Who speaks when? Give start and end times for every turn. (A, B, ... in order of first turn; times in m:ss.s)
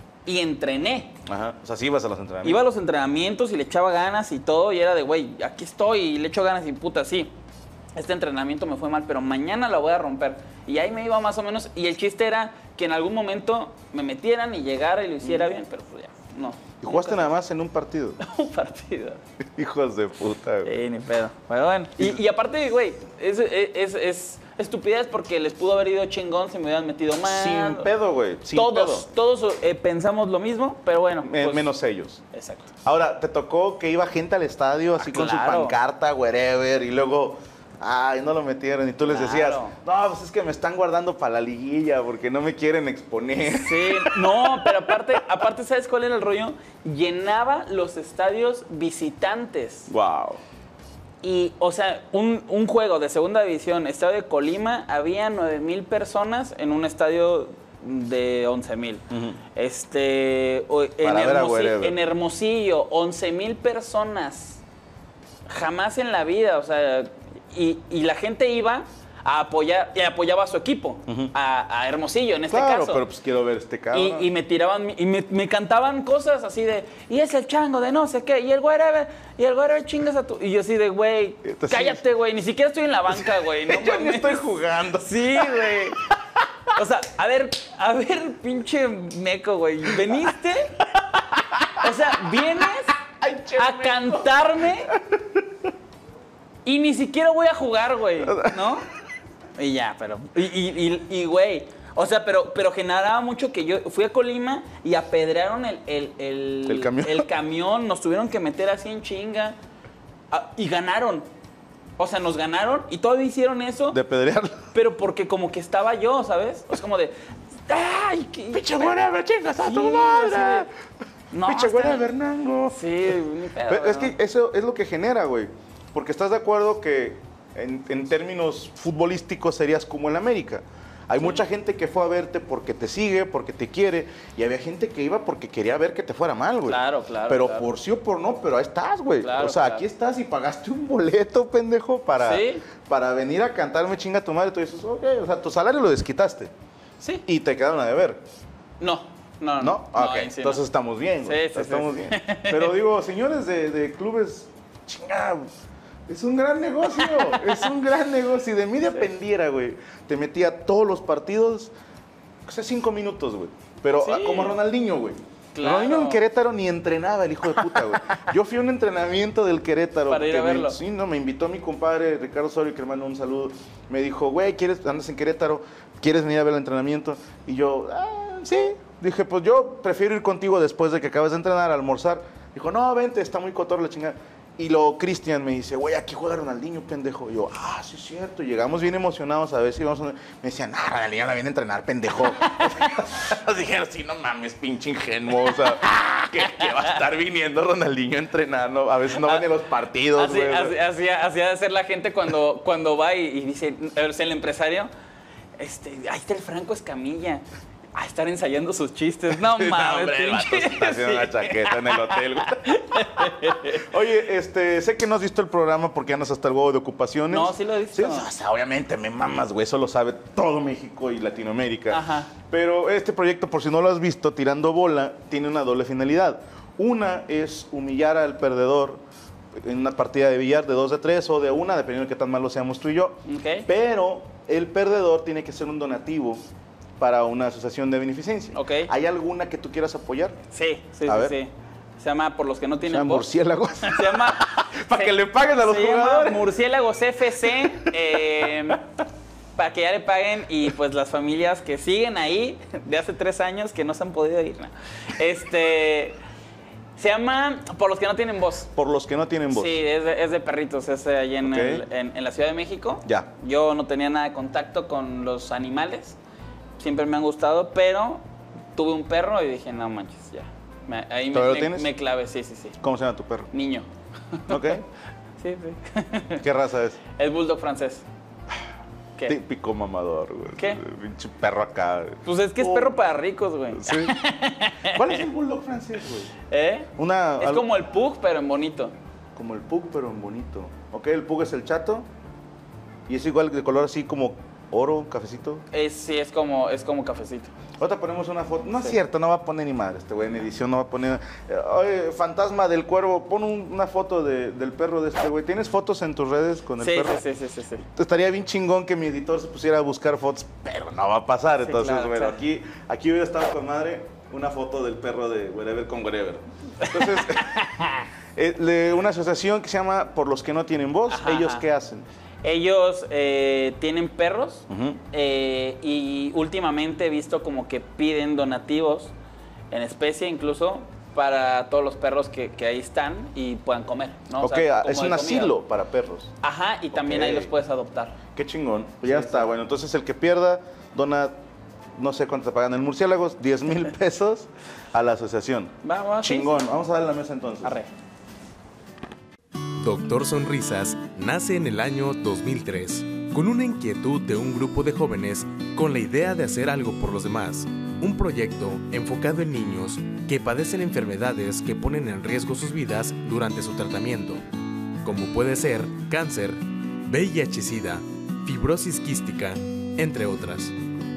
0:00.2-0:01.2 A
0:01.2-0:02.6 B
0:02.4-0:07.3 A
0:07.9-0:17.3 A
0:15.2-0:15.5 B
0:16.8-0:18.2 B
0:18.2-0:19.2 A
0:19.6-0:20.7 B
0:20.6-0:27.9 A
0:27.2-0:29.1 B
0:28.5-0:31.7 A
0:31.2-0:32.2 B
0:32.3-0:32.7 A
0:32.8-0:45.0 B
0:35.0-0:35.8 A
0:39.0-0:39.8 A
0:43.4-0:49.9 A
0:49.9-0:50.4 B
0:51.2-0:59.0 A
0:59.1-0:59.4 B
0:59.6-1:04.6 A
1:01.0-1:02.0 B
1:05.4-1:13.0 A
1:11.1-1:11.3 B
1:12.5-1:14.3 B
1:13.9-1:26.0 A
1:21.4-1:22.0 B
1:23.1-1:26.1 B
1:26.7-1:30.9 A
1:31.4-1:35.5 B
1:31.8-1:33.0 A
1:33.6-1:34.9 A
1:36.6-1:38.9 A
1:38.2-1:38.8 B
1:39.6-1:49.6 A
1:46.7-1:47.3 B
1:50.3-1:51.3 A
1:52.0-1:54.0 A
1:53.9-1:54.6 B
1:54.7-1:57.1 A
1:57.6-1:59.0 A
1:58.5-2:00.7 B
1:59.6-2:00.7 A
2:01.3-2:02.1 A
2:01.4-2:26.5 B
2:02.7-2:04.1 A
2:16.7-2:17.7 A
2:19.2-2:19.8 A
2:22.2-2:22.6 A
2:27.2-2:28.2 B
2:28.8-2:30.6 A
2:29.6-2:35.5 B
2:31.2-2:32.8 A
2:36.1-2:41.7 B
2:36.9-2:37.8 A
2:42.4-3:20.8 B
2:44.0-2:44.6 A
2:45.5-2:46.2 A
2:47.5-2:48.2 A
2:50.1-2:50.8 A
3:12.4-3:13.1 A
3:15.4-3:15.8 A
3:16.4-3:17.0 A
3:19.2-3:19.5 A
3:20.1-3:24.9 A
3:25.6-3:33.9 A
3:29.3-3:49.0 B
3:37.3-3:38.3 A
3:41.9-3:42.3 A
3:49.5-3:56.4 B
3:53.2-3:53.7 A
3:57.0-4:00.4 B
3:58.5-3:58.9 A
4:00.5-4:03.3 A
4:01.1-4:01.4 B
4:02.8-4:06.5 B
4:03.8-4:08.8 A
4:07.4-4:08.8 B
4:09.6-4:16.2 A
4:17.0-4:18.7 A
4:18.8-4:19.8 B
4:19.5-4:26.2 A
4:21.4-4:21.8 B
4:26.8-4:28.2 A
4:28.8-4:32.8 A
4:31.3-4:31.9 B
4:32.8-4:33.5 B
4:33.5-4:34.8 A
4:34.5-4:34.8 B
4:35.4-4:36.4 A
4:36.4-4:37.0 B
4:37.1-4:38.0 A
4:39.2-4:43.0 B
4:40.6-4:40.8 A
4:42.2-4:45.2 A
4:43.7-4:44.2 B
4:44.8-4:46.3 B
4:46.5-4:48.9 A
4:47.0-4:47.7 B
4:49.4-4:52.1 B
4:53.1-4:55.6 B
4:55.7-4:57.5 A
4:57.8-5:07.2 B
5:06.8-5:07.8 A
5:07.9-5:17.7 B
5:11.6-5:12.4 A
5:16.8-5:18.1 A
5:18.4-5:22.1 B
5:21.1-5:21.6 A
5:22.4-5:29.1 A
5:24.7-5:25.0 B
5:29.7-5:35.5 A
5:34.4-5:36.3 B
5:36.4-5:38.2 A
5:36.9-5:37.5 B
5:38.4-5:41.4 B
5:39.1-5:39.5 A
5:42.0-5:47.8 B
5:45.8-5:46.5 A
5:47.6-5:47.9 A
5:49.8-6:04.4 C
6:05.0-6:10.8 C